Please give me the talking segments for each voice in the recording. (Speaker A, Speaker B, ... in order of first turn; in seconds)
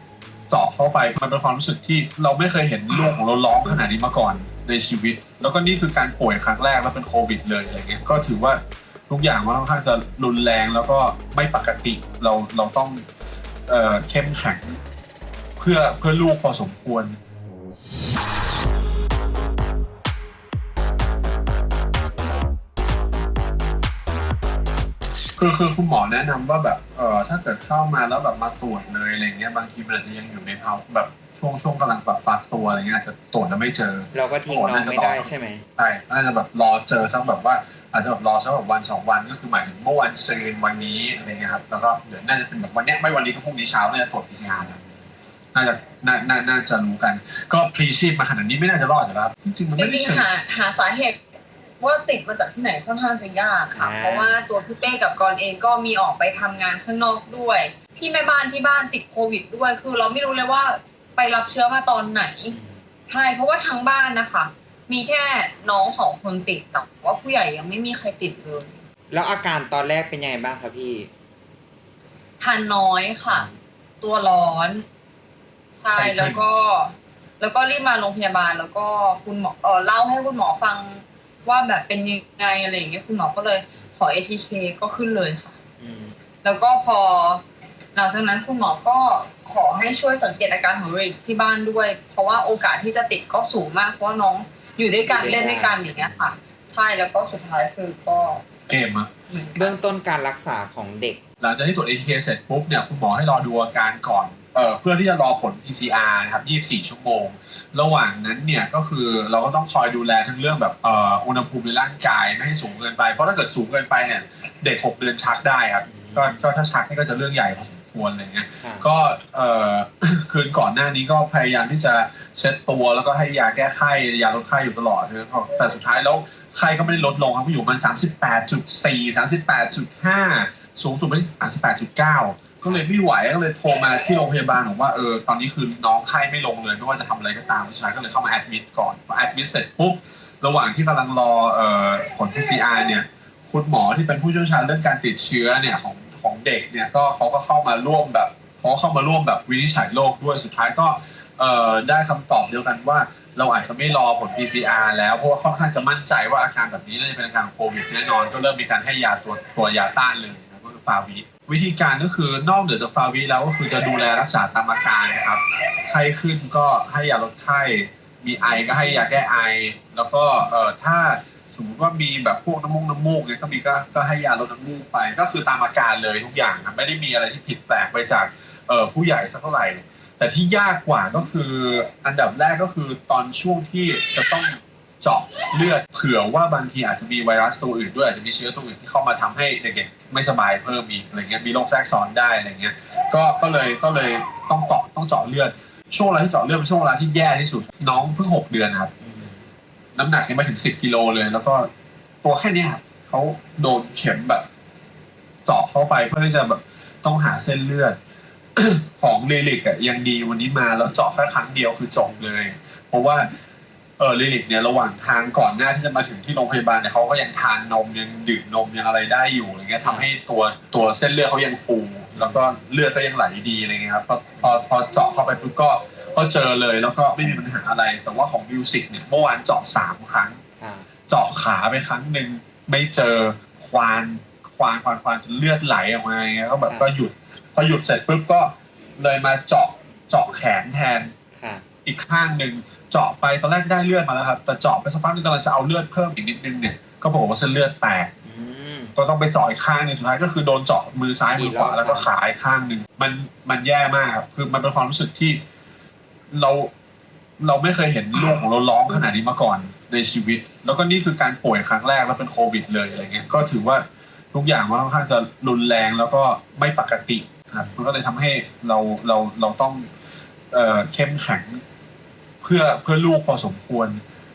Speaker A: 0.5-13.1, 13.7-14.8, 15.6-17.2, 25.4-44.8, 45.5-50.3, 75.9-76.4, 98.7-99.1, 101.4-198.9, 199.9-201.7, 202.2-204.4, 205.4-208.0, 208.6-213.3, 214.0-230.4, 231.1-241.1, 241.8-248.1, 248.9-255.4, 256.3-256.7, 257.4-269.9, 270.5-271.6, 272.4-274.0
Speaker B: 34.1-35.6, 53.7-54.4, 62.5-62.9, 69.1-71.1, 85.8-86.1, 95.1-96.3, 99.5-101.2, 115.9-116.4, 118.6-118.8, 199.0-199.4, 219.8-220.1, 222.1-222.6, 230.6-230.9, 241.3-241.6, 248.2-248.9, 251.3-252.1
Speaker C: 49.8-51.2, 51.8-62.5, 63.1-68.8, 72.4-73.5, 74.0-74.8, 75.8-85.6, 86.4-87.4, 87.9-98.4, 99.3-99.8